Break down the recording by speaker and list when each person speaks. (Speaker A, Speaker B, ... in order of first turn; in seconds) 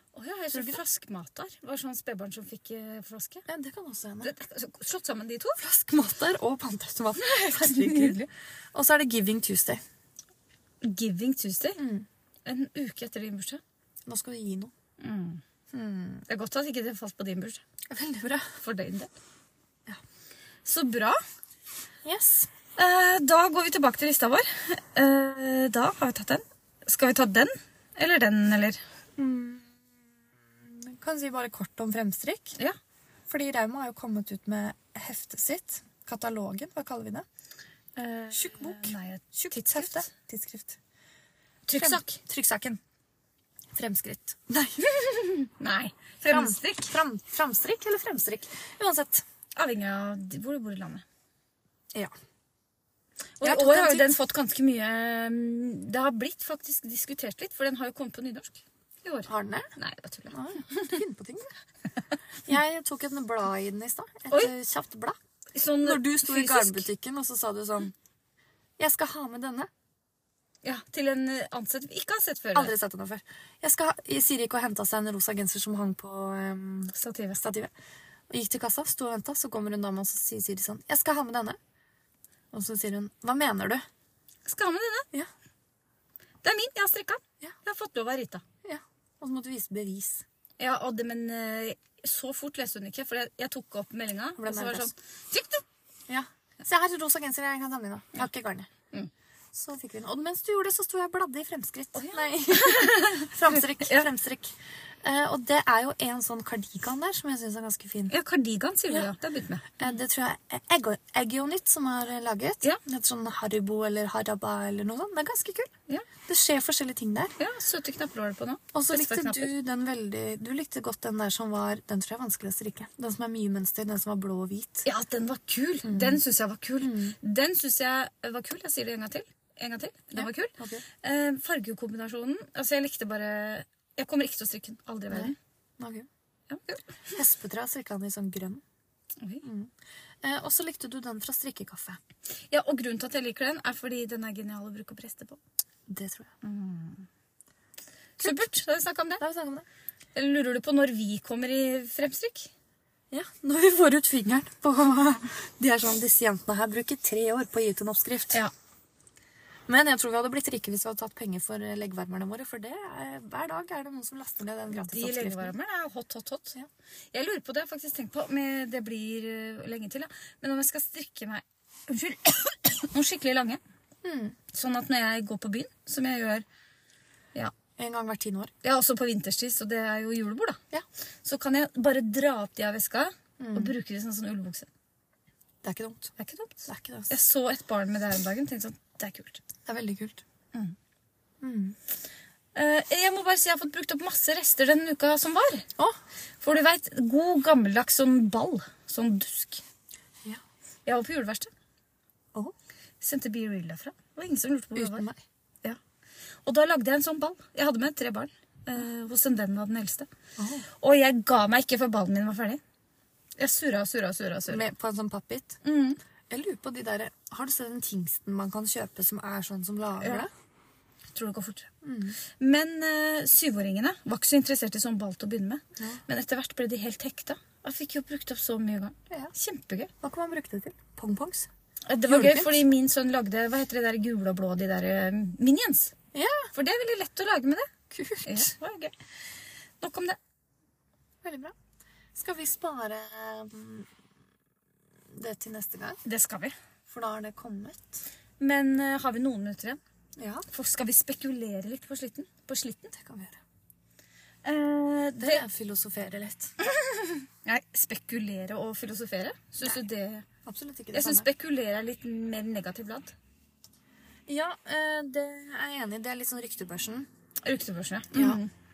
Speaker A: 0.1-3.5, 4.2-5.6, 7.2-8.3, 10.8-11.8, 12.4-13.6, 15.0-15.4, 16.3-17.6, 18.6-19.1, 20.6-21.2, 22.8-28.8, 38.0-40.1, 41.7-42.2, 44.8-46.9, 49.5-51.0, 53.4-61.0, 65.5-66.9, 70.6-72.7, 76.9-77.4, 84.4-85.1, 86.4-88.4, 90.6-95.6, 101.9-104.1, 108.1-109.8, 117.4-119.5, 124.8-135.4, 136.5-137.1, 139.2-139.4, 142.5-145.4, 146.4-147.1, 148.2-149.2, 150.1-152.5, 164.7-166.6, 167.1-173.6, 174.5-176.4, 178.6-180.6, 181.2-184.7, 186.2-189.4, 192.5-195.7, 196.4-199.6, 200.8-201.5, 203.0-205.1, 206.4-210.1, 210.8-212.6, 213.4-214.7, 215.6-216.0, 221.1-221.7, 222.4-229.9, 231.8-235.9, 236.5-237.7, 238.2-238.9, 239.8-240.2, 246.0-246.6, 248.4-249.8, 250.5-252.9, 254.4-255.4, 256.6-260.2, 260.9-263.1, 267.4-268.5
Speaker B: 0.5-0.8, 3.5-4.3, 5.6-9.8, 11.8-12.1, 14.1-14.7, 15.7-16.2, 17.9-18.5, 22.0-22.5, 29.2-29.8, 30.6-32.6, 33.3-37.2, 38.3-40.8, 41.8-42.8, 43.7-44.9, 46.2-49.2, 53.4-54.1, 59.2-59.7, 60.3-61.5, 62.5-65.2, 65.8-67.9, 68.8-69.7, 72.5-77.7, 78.3-81.6, 82.5-83.8, 88.6-90.2, 94.4-94.9, 96.1-98.7, 99.5-108.1, 109.8-115.7, 116.2-117.3, 118.7-124.8, 125.8-126.2, 126.8-127.2, 130.1-130.8, 135.1-136.1, 137.1-138.6, 139.4-142.0, 145.9-146.3, 148.2-148.5, 149.2-149.7, 153.1-158.4, 159.7-165.5, 174.0-174.3, 177.8-178.5, 183.4-183.7, 185.6-186.1, 186.7-187.2, 189.7-190.2, 191.4-191.8, 204.8-205.2, 210.4-210.7, 214.5-215.6, 216.3-220.3, 221.8-222.2, 230.0-231.5, 232.1-232.6, 236.1-236.5, 237.9-238.5, 241.2-241.5, 242.1-243.9, 245.1-246.0, 246.9-248.0, 250.2-250.4, 252.9-253.4, 255.2-256.5, 260.4-261.3, 264.3-267.1, 268.1-268.4